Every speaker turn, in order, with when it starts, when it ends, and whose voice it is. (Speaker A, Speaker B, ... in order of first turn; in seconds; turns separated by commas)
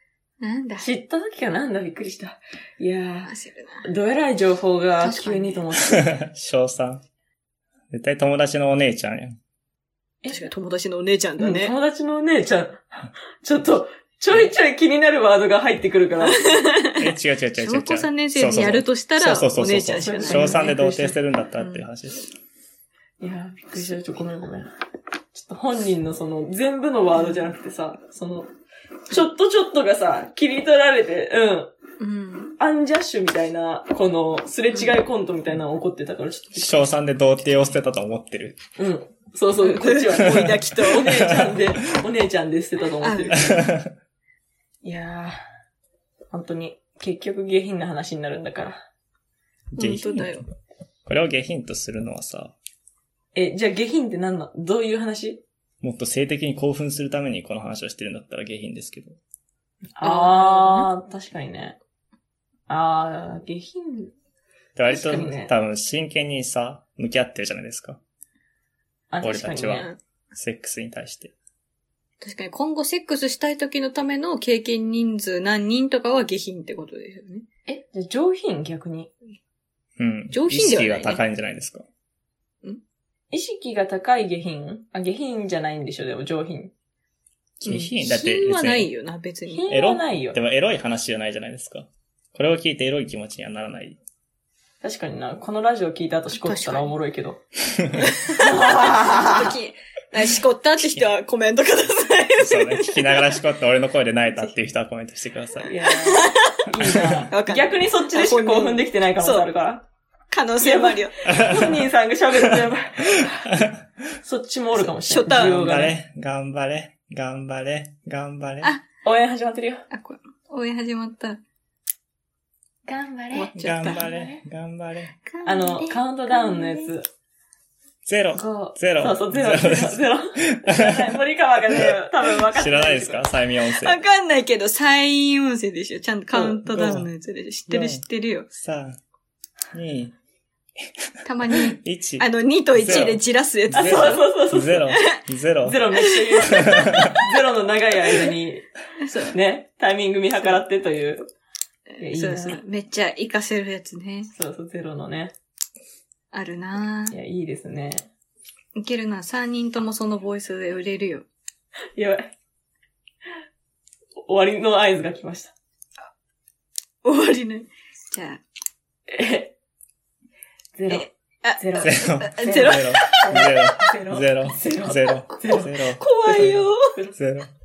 Speaker A: 0.4-0.9, Speaker B: 0.8-3.3, Speaker A: 3.3-3.9, Speaker B: 3.8-6.2, Speaker A: 5.0-5.6, Speaker C: 5.9-7.0, Speaker C: 7.9-9.4, Speaker A: 10.3-11.8, Speaker B: 11.4-16.4, Speaker A: 16.2-21.9, Speaker C: 17.0-22.3, Speaker B: 20.0-20.7, Speaker B: 23.2-24.7, Speaker B: 25.3-28.5, Speaker A: 27.2-27.5, Speaker B: 29.1-31.7, Speaker A: 32.0-32.6, Speaker B: 32.6-36.8, Speaker C: 36.6-38.6, Speaker B: 38.8-43.6, Speaker A: 39.6-41.3, Speaker C: 40.3-40.5, Speaker C: 41.1-41.6, Speaker A: 43.0-43.6, Speaker C: 43.5-43.9, Speaker B: 44.8-45.4, Speaker B: 46.3-48.9, Speaker A: 49.7-50.5, Speaker C: 49.8-50.5, Speaker C: 51.1-52.6, Speaker B: 53.4-55.4, Speaker C: 55.8-59.2, Speaker B: 60.0-61.8, Speaker A: 60.0-60.9, Speaker B: 62.7-64.1, Speaker C: 64.8-68.0, Speaker B: 64.9-65.5, Speaker B: 69.1-69.9, Speaker C: 69.2-71.3, Speaker A: 72.2-77.5, Speaker B: 77.7-79.1, Speaker C: 80.0-81.9, Speaker A: 80.3-81.2, Speaker B: 83.3-86.7, Speaker C: 87.6-88.9, Speaker A: 87.6-89.7, Speaker B: 89.5-90.4, Speaker C: 89.7-94.0, Speaker B: 94.8-97.4, Speaker A: 96.4-97.0, Speaker A: 98.0-103.4, Speaker B: 98.4-99.5, Speaker C: 102.4-105.7, Speaker B: 105.7-109.9, Speaker A: 106.1-109.5, Speaker C: 107.0-107.2, Speaker A: 110.3-111.2, Speaker B: 110.6-113.5, Speaker C: 111.3-111.8, Speaker C: 113.2-114.1, Speaker B: 114.2-116.0, Speaker C: 114.8-118.7, Speaker A: 115.0-115.6, Speaker B: 119.0-119.9, Speaker A: 119.9-121.4, Speaker B: 122.9-124.4, Speaker A: 123.3-124.1, Speaker C: 123.6-125.2, Speaker A: 125.2-126.9, Speaker B: 125.5-127.1, Speaker C: 128.1-131.2, Speaker B: 128.3-133.2, Speaker C: 131.7-134.0, Speaker A: 133.8-138.5, Speaker B: 136.3-136.7, Speaker C: 136.7-137.1, Speaker C: 137.7-139.0, Speaker C: 139.7-140.2, Speaker C: 140.8-141.1, Speaker A: 141.2-144.2, Speaker C: 141.7-143.2, Speaker B: 143.7-144.9, Speaker C: 143.7-145.9, Speaker A: 144.9-145.2, Speaker B: 145.6-148.7, Speaker A: 146.0-146.6, Speaker C: 146.7-147.1, Speaker A: 149.0-149.4, Speaker B: 149.3-151.3, Speaker A: 152.0-154.3, Speaker B: 152.0-152.6, Speaker B: 154.3-155.3, Speaker A: 156.3-157.2, Speaker B: 157.1-158.1, Speaker A: 158.8-161.3, Speaker B: 162.0-162.3, Speaker B: 164.2-165.5, Speaker A: 167.0-168.4, Speaker B: 169.1-169.5, Speaker B: 170.8-175.7, Speaker A: 170.9-173.5, Speaker C: 171.8-177.5, Speaker A: 176.0-177.0